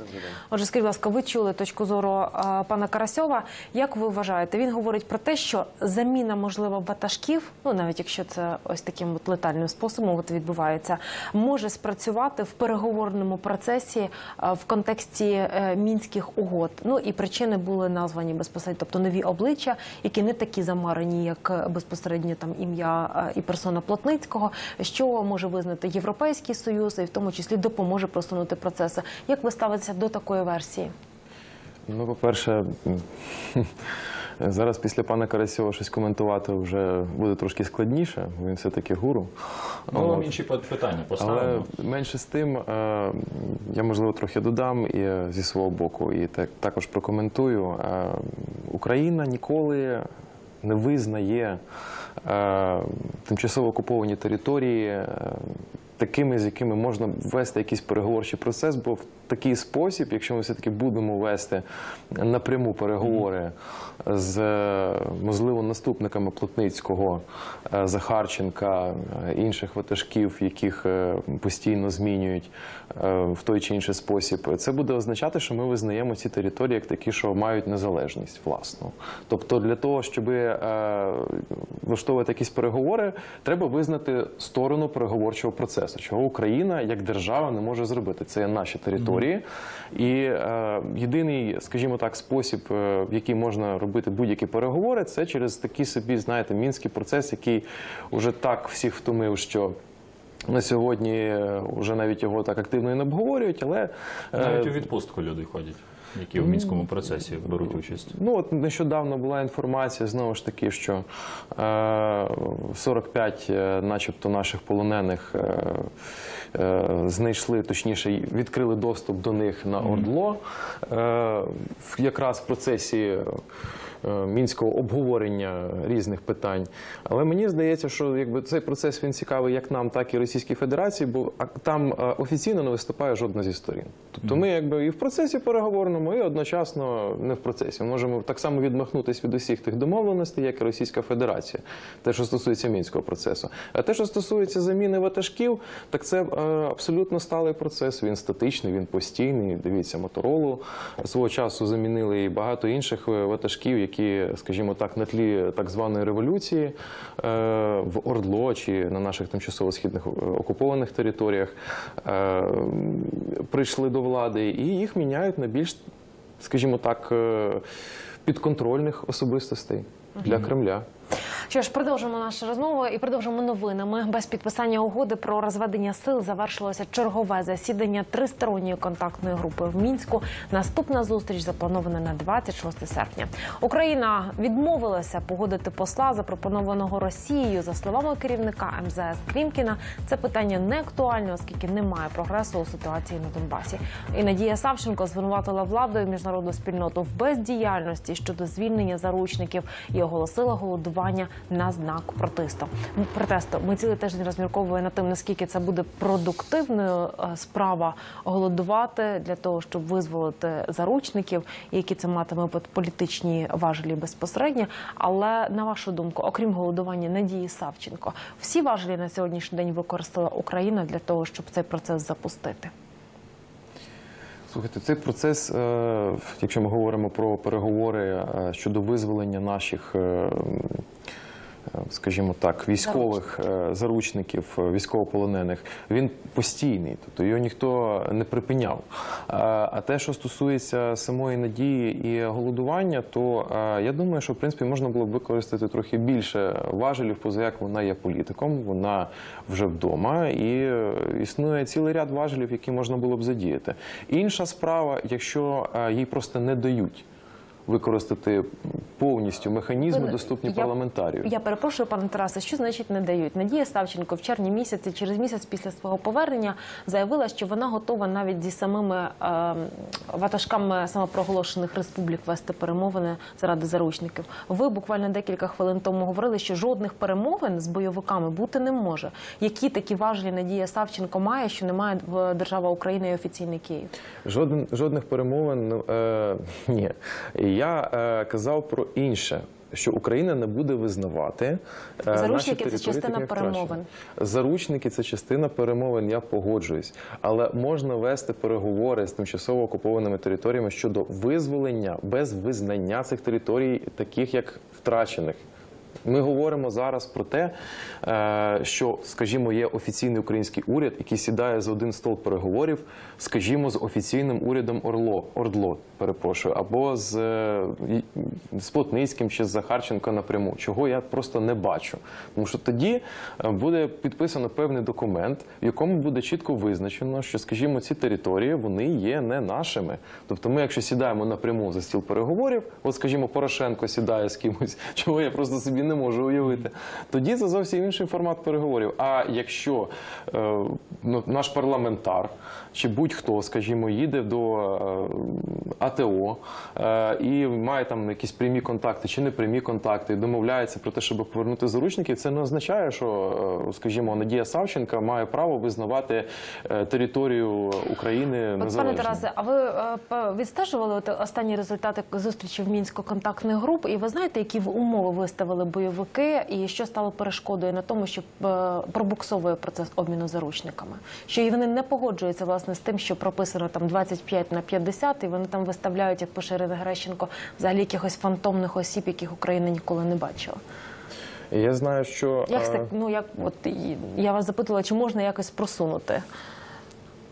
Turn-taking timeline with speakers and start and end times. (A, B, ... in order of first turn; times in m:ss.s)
0:00.5-0:30.9 A
0:31.9-0:33.7 B
0:34.4-0:39.3 B
0:39.9-0:40.4 B
0:39.9-0:41.6 C
0:41.2-0:50.0 B
0:50.6-0:51.6 B
0:52.2-1:39.7 B
1:40.5-1:44.8 B
1:44.4-1:48.1 C
1:46.3-1:46.9 B
1:47.6-1:55.9 B
1:56.5-2:03.4 B
2:04.0-2:45.8 B
2:46.4-2:47.6 B
2:48.2-2:50.8 B
2:51.5-3:42.7 A
3:44.5-3:50.8 B
3:51.7-4:17.0 B
4:17.7-4:21.3 B
4:19.9-4:20.7 A
4:21.2-4:43.9 A
4:44.2-5:05.4 B
4:52.1-4:53.8 A
5:06.0-5:59.2 B
5:58.6-6:20.6 A
6:21.5-6:22.9 B
6:22.5-6:26.2 A